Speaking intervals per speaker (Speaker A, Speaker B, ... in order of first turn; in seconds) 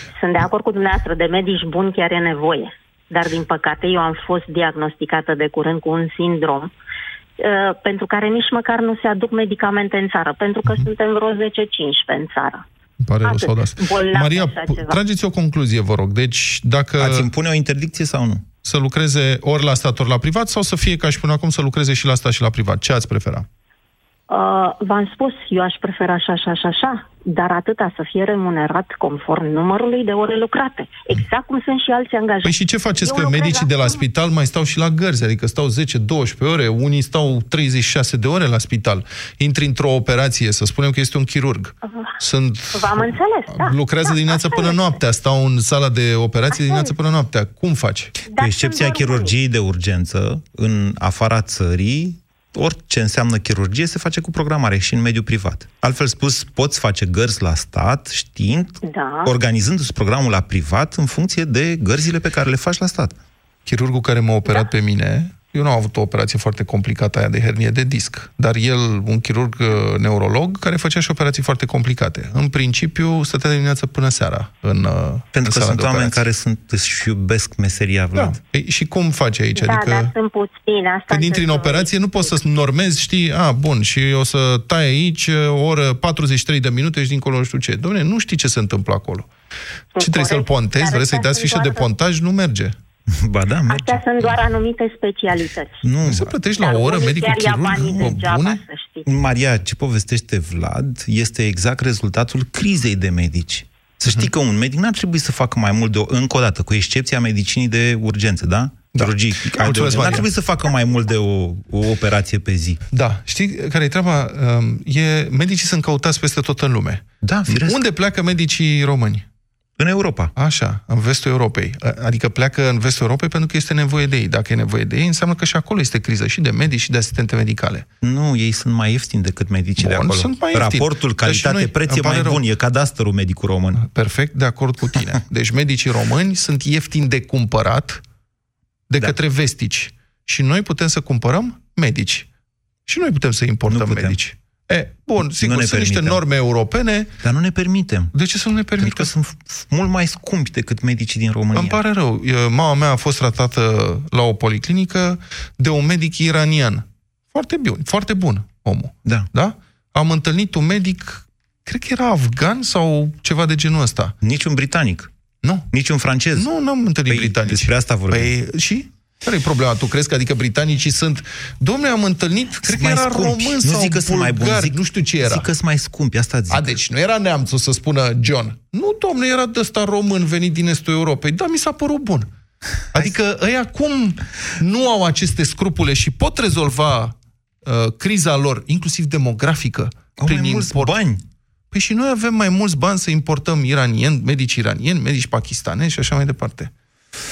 Speaker A: 0.2-6.7, 7.4-12.6, 13.2-15.0, 24.3-34.0, 41.9-42.1, 42.7-45.0, 46.5-46.9, 48.3-49.3, 58.8-59.3, 79.6-82.4, 90.0-91.9, 93.7-95.8, 96.6-99.1
Speaker B: 13.0-17.3, 18.6-23.5, 32.4-48.2, 63.7-76.2, 78.2-80.1, 81.1-89.3, 90.0-92.8, 96.0-98.6, 108.9-110.3, 112.9-119.2, 120.4-127.9, 129.8-132.4, 133.8-138.0, 138.9-142.3, 142.9-147.1, 148.1-149.1, 151.5-164.2, 166.3-175.5, 176.5-182.3, 182.9-187.1, 187.7-190.9, 191.7-196.7
Speaker C: 17.0-18.4, 48.4-63.2, 75.3-78.4, 93.1-94.3, 95.8-96.4, 97.8-98.2, 99.1-112.8, 117.2-117.8, 119.8-120.3, 128.0-133.8, 143.7-144.2, 145.2-146.2, 147.2-148.1, 148.8-151.8, 164.2-165.1, 165.7-166.5, 167.1-168.3, 172.6-176.8, 190.2-191.2